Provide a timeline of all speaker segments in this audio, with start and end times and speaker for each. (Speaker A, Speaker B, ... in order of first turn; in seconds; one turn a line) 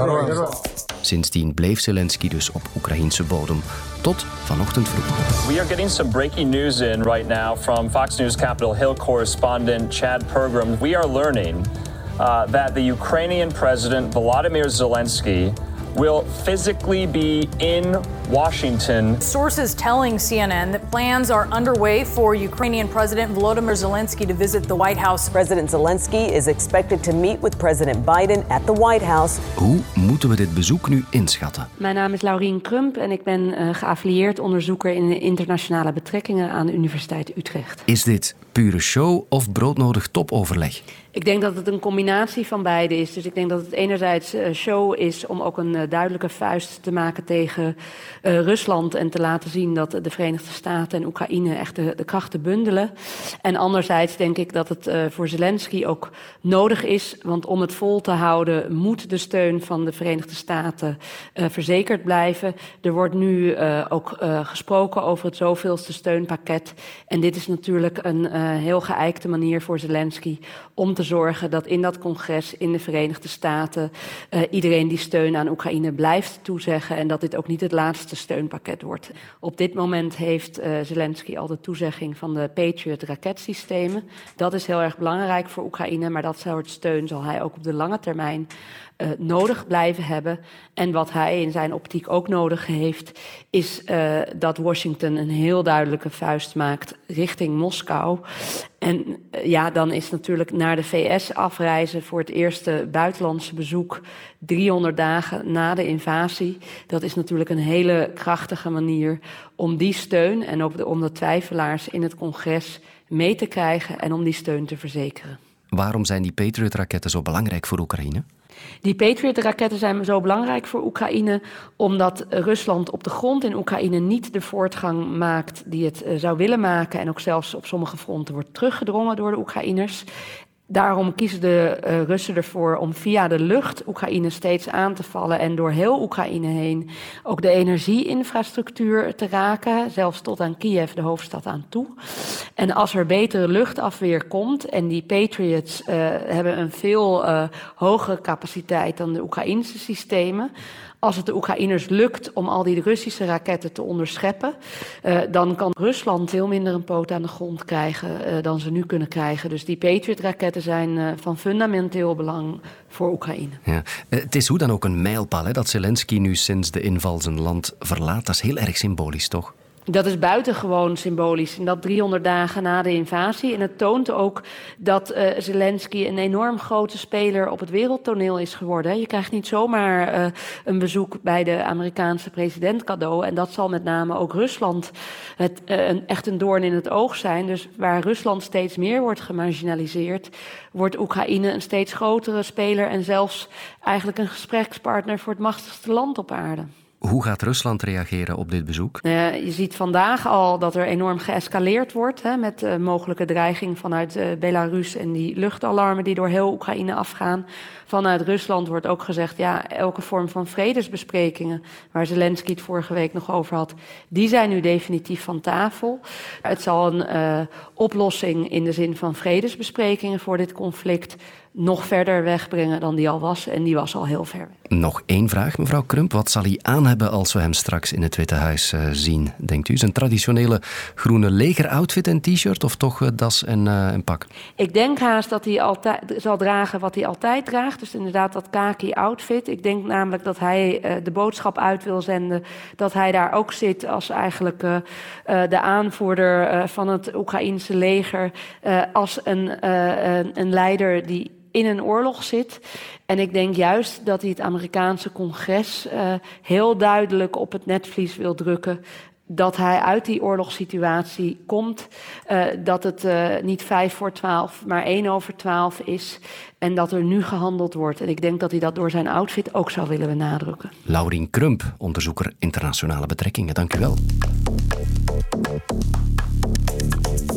Speaker A: 1.0-5.2
Speaker B: 5.4-19.2
Speaker C: 19.2-25.3
Speaker D: 25.3-29.4
Speaker A: 29.6-31.7
Speaker E: 31.8-37.8
Speaker A: 37.9-40.8
Speaker E: 41.1-52.9
Speaker E: 53.4-88.5
Speaker E: 89.0-98.2
Speaker E: 98.8-115.4
Speaker A: 115.7-118.2
Speaker E: 118.8-130.0
Speaker E: 130.7-141.9
Speaker E: 142.6-150.5
Speaker E: 151.0-163.6
Speaker A: 163.7-169.5
Speaker E: 169.9-196.7
Speaker A: 197.0-199.0
Speaker E: 199.0-224.5
Speaker A: 224.7-234.2
Speaker E: 234.6-270.7
Speaker A: 270.9-274.0